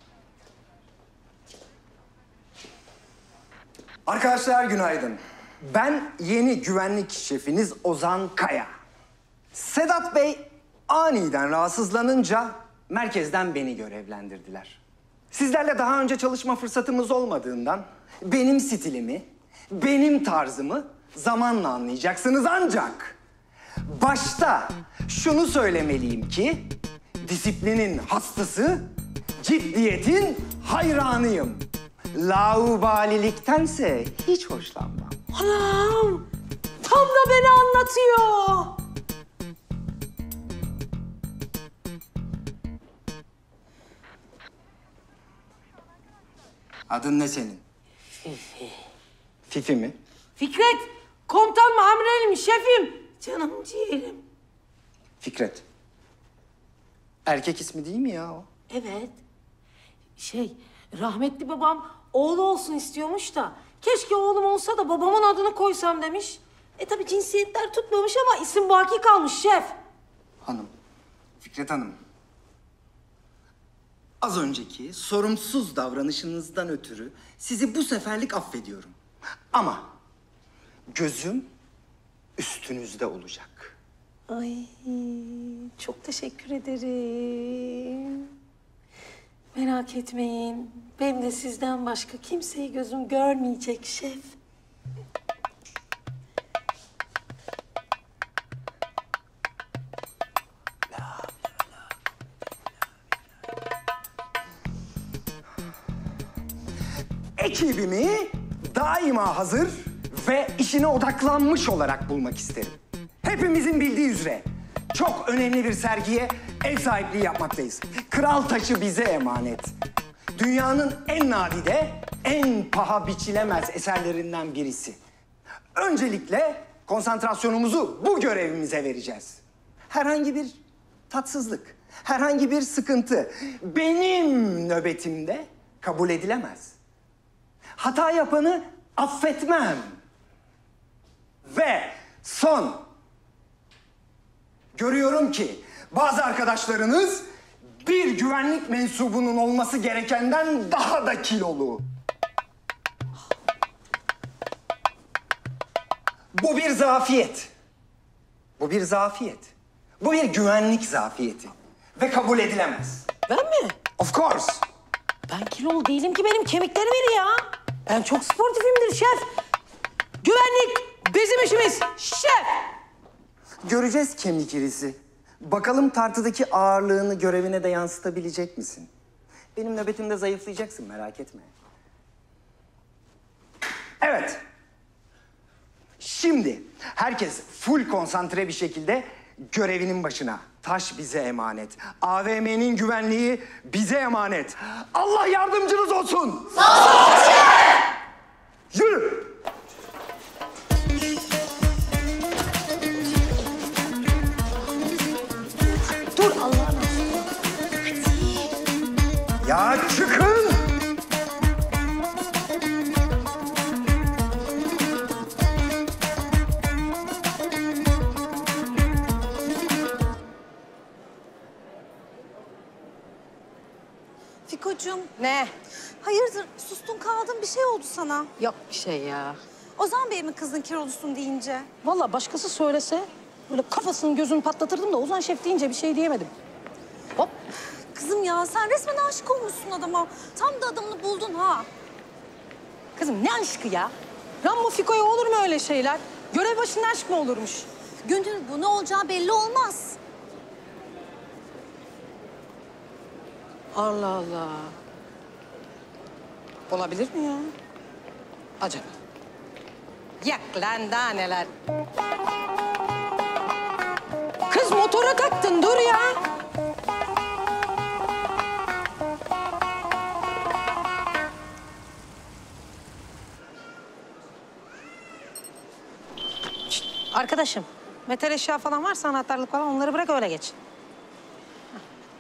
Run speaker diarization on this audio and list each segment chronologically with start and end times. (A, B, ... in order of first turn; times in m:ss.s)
0:04.0-0:08.7 A
0:09.5-0:14.8 A
0:15.3-0:23.2 A
0:23.9-0:35.2 A
0:35.3-0:36.2 B
0:36.8-0:38.7 B
0:46.9-0:47.6 A
0:48.2-0:48.8 B
0:49.5-0:50.0 A
0:50.4-0:54.2 B
0:55.2-0:55.6 A
0:57.2-0:58.5 A
0:58.7-0:59.2 B
1:00.2-1:09.7 B
1:10.4-1:10.7 A
1:11.4-1:12.0 A
1:14.2-1:19.0 A
1:19.5-1:19.9 A
1:20.9-1:21.5 A
1:22.4-1:23.8 A
1:24.3-1:28.3 B
1:29.5-1:34.3 B
1:47.4-1:59.7 A
2:00.3-2:05.0 A
2:05.7-2:16.8 A
2:17.8-2:20.0 A
2:21.4-2:22.9 A
2:24.7-2:31.8 A
2:36.3-2:37.5 A
2:38.6-2:43.1 A
2:43.3-2:43.8 B
2:44.0-2:44.6 A
2:45.3-2:49.3 B
2:50.2-2:52.6 B
2:53.6-2:58.9 A
2:59.6-3:01.5 A
3:04.0-3:04.4 A
3:06.0-3:16.7 A
3:18.7-3:19.3 A
3:26.1-3:27.2 B
3:27.9-3:28.4 B
3:29.4-3:30.8 A
3:44.5-3:45.1 C
3:45.2-3:45.5 B
3:46.0-3:48.3 C
3:48.4-3:49.4 B
3:49.8-3:51.7 C
3:51.8-3:56.3 B
3:57.9-4:01.7 C
4:03.0-4:07.7 B
4:08.0-4:10.0 C
4:13.7-4:14.7 B
4:16.7-4:17.5 B
4:18.6-4:18.9 B
4:20.2-4:21.5 B
4:24.5-4:26.2 B
4:36.7-4:40.5 B